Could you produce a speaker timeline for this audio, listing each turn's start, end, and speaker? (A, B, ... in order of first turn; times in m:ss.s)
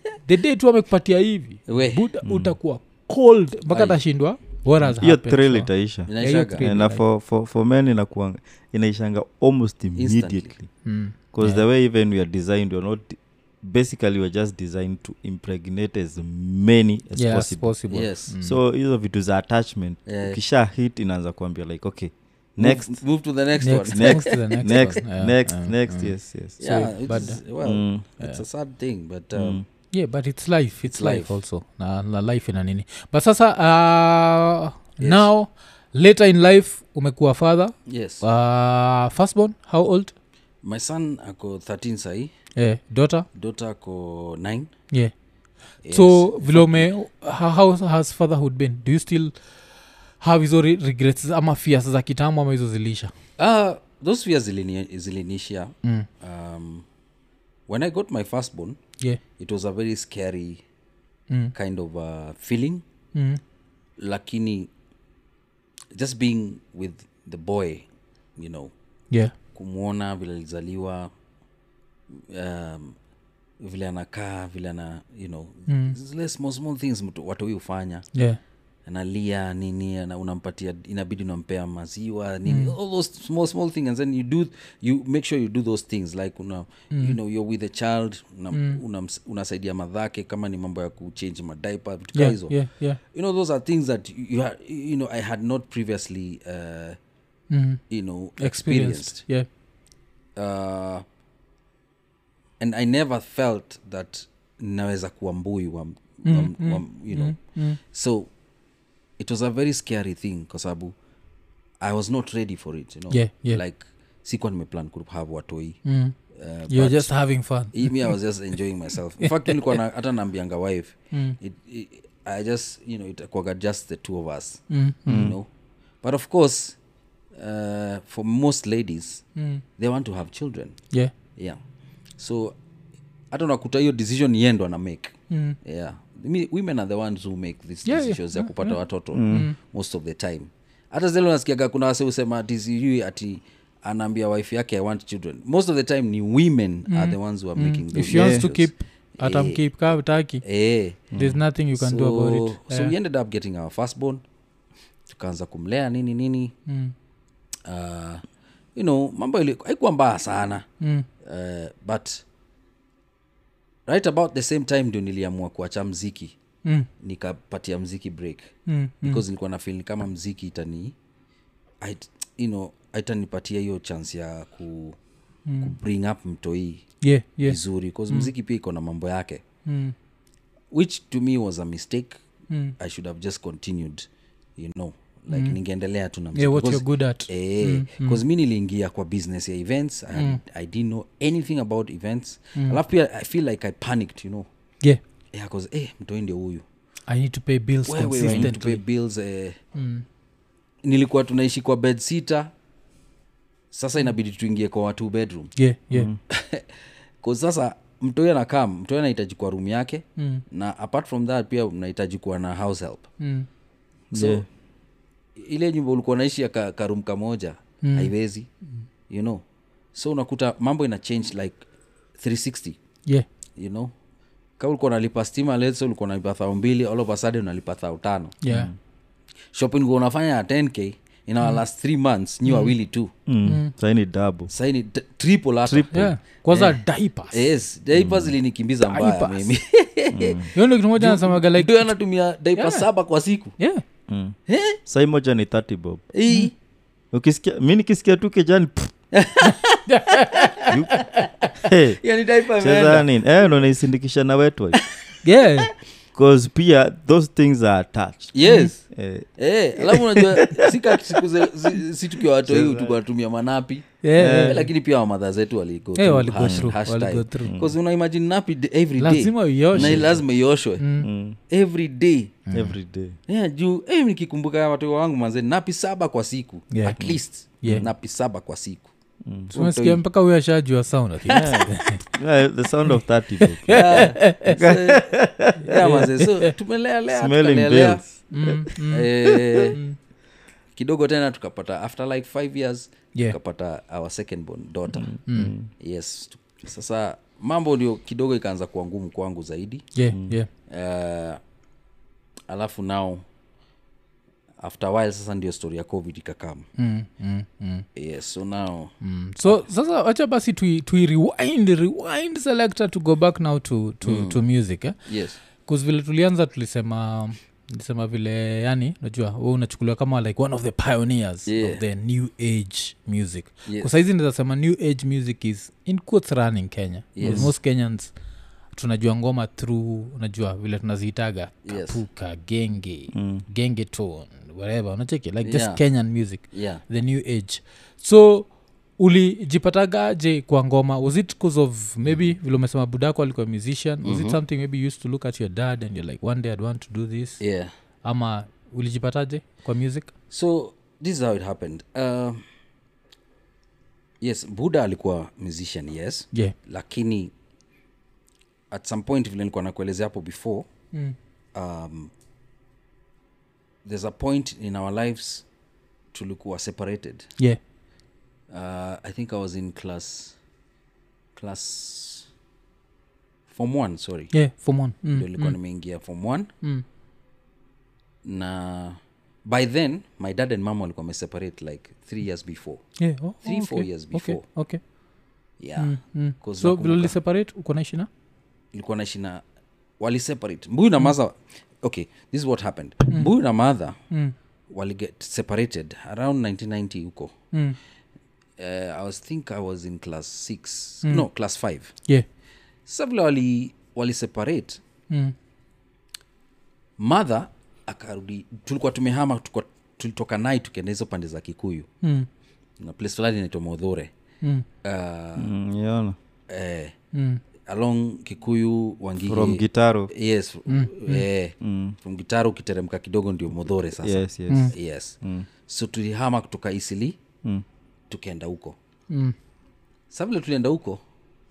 0:00.2-0:07.0 A
0:01.7-0:02.0 B
0:02.2-0:02.6 C
0:03.7-0:04.0 B
0:04.8-0:10.7 C
0:06.1-0:06.7 B
0:10.0-0:10.5 B
0:10.8-0:11.6 A
0:11.3-0:17.7 C
0:17.2-0:18.6 A
0:17.9-0:18.3 B
0:18.4-0:23.0 C
0:20.1-0:20.4 B
0:22.6-0:25.0 B
0:23.6-0:27.4 A
0:23.9-0:26.7 C
0:26.6-0:29.6 B
0:27.6-0:28.0 C
0:29.4-0:29.6 C
0:29.9-0:40.1 A
0:30.9-0:31.4 B
0:35.0-0:35.3 B
0:37.9-0:38.2 B
0:40.6-0:42.3 B
0:42.6-0:43.3 A
0:43.4-0:44.7 B
0:45.8-0:46.9 B
0:45.9-0:49.3 A
0:50.2-0:53.1 A
0:53.4-0:56.9 B
0:57.7-0:58.8 B
0:59.4-1:00.6 B
1:01.5-1:02.8 B
1:03.1-1:03.4 A
1:04.0-1:04.7 B
1:05.9-1:08.7 B
1:09.5-1:11.1 B
1:12.2-1:13.0 B
1:13.6-1:18.0 B
1:15.7-1:16.0 A
1:18.1-1:18.4 A
1:18.9-1:32.6 B
1:22.5-1:22.8 A
1:28.5-1:28.8 A
1:32.1-1:33.0 A
1:33.1-1:37.0 B
1:37.5-1:37.8 A
1:37.9-1:39.2 B
1:38.4-1:39.5 A
1:40.4-1:41.0 B
1:42.6-1:48.3 B
1:46.2-1:47.8 A
1:49.2-1:51.0 B
1:51.8-1:55.8 B
1:53.1-1:53.6 A
1:55.8-1:56.2 A
1:56.3-1:57.1 B
1:56.7-1:58.2 A
1:57.7-2:05.5 B
1:59.2-1:59.8 A
2:01.1-2:01.4 A
2:04.7-2:05.3 A
2:05.1-2:05.4 C
2:06.0-2:06.8 B
2:07.4-2:09.2 B
2:09.4-2:09.6 A
2:09.8-2:10.8 B
2:12.2-2:12.6 B
2:13.3-2:29.6 B
2:15.3-2:15.6 A
2:17.9-2:18.8 A
2:19.1-2:19.5 C
2:19.3-2:19.6 A
2:26.9-2:30.4 A
2:28.0-2:28.5 C
2:30.4-2:31.0 B
2:31.1-2:31.4 C
2:31.1-2:32.9 A
2:31.8-2:34.2 B
2:35.1-2:36.6 B
2:36.7-2:36.9 A
2:37.7-2:38.2 B
2:38.8-2:40.7 B
2:40.8-2:41.1 A
2:41.2-2:42.2 B
2:43.9-2:46.4 B
2:46.6-2:46.9 A
2:47.0-2:51.0 B
2:48.7-2:49.2 A
2:51.8-2:55.0 B
2:55.5-2:55.7 A
2:55.6-2:56.8 B
2:57.0-2:58.3 A
2:57.4-2:59.4 B
2:59.7-3:00.0 A
3:00.7-3:02.2 B
3:02.5-3:02.8 A
3:02.8-3:14.5 B
3:05.3-3:05.6 A
3:06.4-3:08.2 A
3:10.2-3:10.4 A
3:15.3-3:16.6 B
3:17.1-3:18.8 A
3:17.9-3:19.6 B
3:18.2-3:18.5 C
3:19.8-3:20.0 A
3:20.8-3:22.5 B
3:23.7-3:25.5 B
3:25.6-3:26.1 A
3:25.9-3:26.2 C
3:26.3-3:26.7 B
3:27.2-3:33.1 B
3:30.2-3:30.4 A
3:33.2-3:33.5 A
3:34.1-3:34.4 C
3:34.1-3:34.5 B
3:35.4-3:38.5 B
3:37.8-3:38.1 A
3:39.1-3:39.4 B
3:39.9-3:41.6 B
3:42.2-3:42.8 B
3:43.6-3:43.9 B
3:44.6-3:48.4 B
3:48.4-3:48.7 A
3:48.5-3:48.8 C
3:49.5-3:53.1 B
3:52.4-3:52.8 A
3:53.3-3:54.5 C
3:53.4-3:53.7 A
3:54.5-3:56.8 B
3:55.7-3:56.1 C
3:55.9-3:57.4 A
3:57.3-4:03.6 B
3:58.0-3:58.3 C
3:58.8-3:59.6 A
4:00.1-4:00.5 C
4:00.6-4:01.9 A
4:02.6-4:02.9 A
4:03.6-4:03.8 A
4:04.1-4:06.1 C
4:04.5-4:04.8 B
4:06.1-4:06.5 B
4:07.1-4:08.9 C
4:09.1-4:13.1 B
4:09.4-4:10.8 A
4:10.7-4:11.1 C
4:11.6-4:14.8 C
4:15.2-4:15.7 A
4:16.1-4:21.2 C
4:18.3-4:30.8 B
4:18.4-4:18.7 A
4:22.4-4:23.0 C
4:24.0-4:24.7 A
4:24.2-4:24.6 C
4:26.0-4:27.6 A
4:26.4-4:26.7 C
4:27.4-4:27.8 C
4:29.0-4:30.2 A
4:29.7-4:30.1 C
4:30.8-4:31.1 A
4:31.0-4:31.4 C
4:31.5-4:32.4 B
4:32.5-4:32.8 A
4:32.5-4:33.2 C
4:33.3-4:38.9 B
4:36.7-4:37.0 A
4:36.9-4:37.9 C
4:37.6-4:37.9 A
4:39.2-4:39.5 C
4:39.5-4:40.0 B
4:39.6-4:42.0 A
4:41.3-4:45.9 C
4:42.9-4:44.6 A
4:43.7-4:48.0 B
4:45.7-4:46.5 A
4:47.1-4:48.7 C
4:48.3-4:50.0 A
4:48.9-4:49.8 B
4:49.3-4:49.7 C
4:50.8-4:55.1 B
4:54.9-4:55.7 C
4:55.3-4:55.5 A
4:55.8-4:59.9 B
5:00.0-5:00.5 A
5:00.1-5:00.4 C
5:00.7-5:01.4 B
5:02.5-5:03.2 B
5:04.6-5:06.7 B
5:06.8-5:07.9 A
5:08.0-5:08.9 B
5:09.0-5:15.0 A
5:14.0-5:14.4 B
5:15.1-5:15.4 B
5:15.6-5:28.1 A
5:21.5-5:21.8 B
5:23.7-5:23.9 B
5:27.2-5:27.5 B
5:27.2-5:27.5 C
5:28.8-5:47.4 A
5:31.6-5:32.0 B
5:33.1-5:33.4 C
5:35.4-5:35.8 B
5:36.5-5:36.8 B
5:44.0-5:44.4 B
5:47.4-5:47.7 B
5:48.0-5:50.1 A
5:50.3-5:52.4 B
5:54.2-5:57.3 B
5:58.7-6:00.7 B
6:01.6-6:02.1 B
6:03.8-6:05.4 B
6:06.1-6:07.3 B
6:08.5-6:10.4 B
6:11.4-6:12.3 B
6:13.5-6:14.3 B
6:14.3-6:15.6 A
6:15.1-6:16.5 B
6:18.2-6:22.8 B
6:23.0-6:24.8 A
6:23.4-6:24.4 B
6:25.6-6:27.2 B
6:25.8-6:28.1 A
6:28.7-6:29.4 B
6:30.0-6:34.0 B
6:34.7-6:37.3 B
6:37.5-6:37.8 A
6:38.6-6:41.9 B
6:42.9-6:44.8 B
6:47.0-6:51.9 B
6:52.0-6:52.3 A
6:52.8-6:54.1 B
6:54.8-6:55.6 B
6:55.4-6:56.2 C
6:56.5-6:56.9 B
6:57.1-6:57.4 A
6:57.6-7:07.2 B
6:59.3-7:00.1 C
7:00.7-7:01.2 A
7:01.6-7:02.0 C
7:04.0-7:05.5 C
7:04.5-7:04.7 A
7:08.1-7:08.8 B
7:09.1-7:09.4 A
7:10.1-7:11.0 B